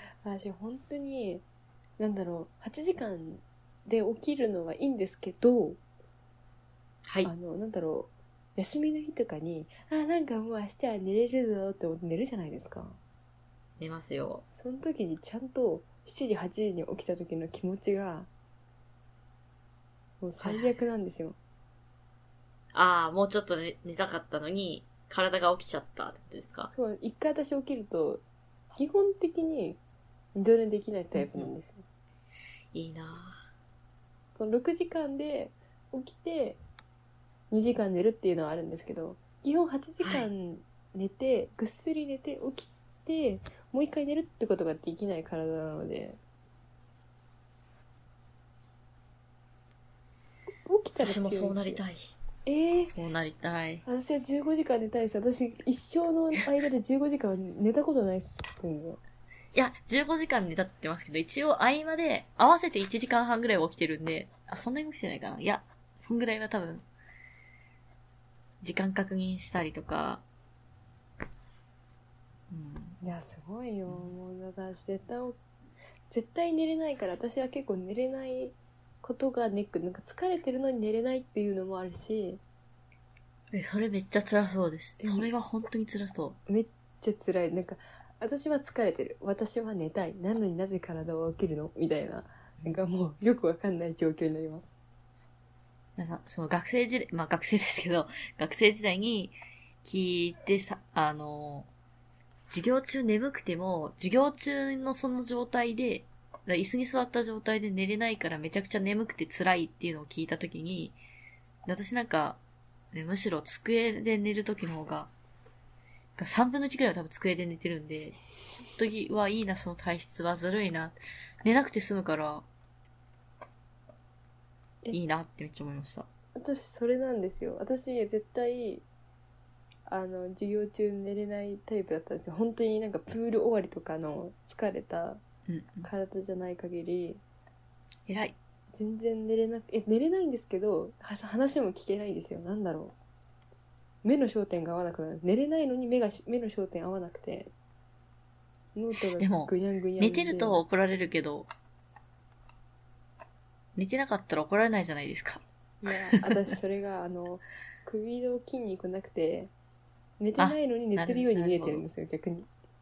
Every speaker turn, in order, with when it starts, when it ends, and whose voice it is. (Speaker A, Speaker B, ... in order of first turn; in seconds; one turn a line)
Speaker A: 0.2-1.4
Speaker A: 2.0-5.8
Speaker B: 7.0-7.3
Speaker A: 7.2-13.0
Speaker B: 13.8-14.4
Speaker A: 14.5-18.3
Speaker A: 20.2-21.4
Speaker B: 20.4-20.7
Speaker B: 22.7-26.7
Speaker A: 26.7-29.8
Speaker A: 30.4-31.9
Speaker B: 31.1-31.5
Speaker B: 32.7-33.4
Speaker A: 34.4-36.6
Speaker A: 37.5-46.2
Speaker B: 40.0-40.3
Speaker A: 50.7-51.8
Speaker B: 51.0-52.1
Speaker A: 52.5-53.0
Speaker B: 53.0-53.8
Speaker A: 53.9-59.0
Speaker B: 59.5-66.8
Speaker B: 68.6-70.2
Speaker B: 72.5-73.0
Speaker A: 73.0-75.4
Speaker A: 76.1-82.4
Speaker B: 83.5-86.4
Speaker A: 85.0-85.3
Speaker A: 86.5-94.7
Speaker B: 96.0-101.7
Speaker B: 102.5-111.0
Speaker B: 111.7-112.4
Speaker B: 112.9-115.1
Speaker B: 116.2-118.2
Speaker B: 118.8-122.5
Speaker B: 124.9-126.1
Speaker A: 126.4-128.8
Speaker A: 129.9-135.2
Speaker B: 135.5-135.9
Speaker A: 135.8-137.2
Speaker B: 138.1-138.3
Speaker A: 138.7-142.9
Speaker A: 144.0-147.5
Speaker A: 148.8-150.6
Speaker B: 149.2-151.5
Speaker B: 153.8-155.4
Speaker A: 155.8-159.5
Speaker A: 160.2-162.5
Speaker B: 160.4-161.8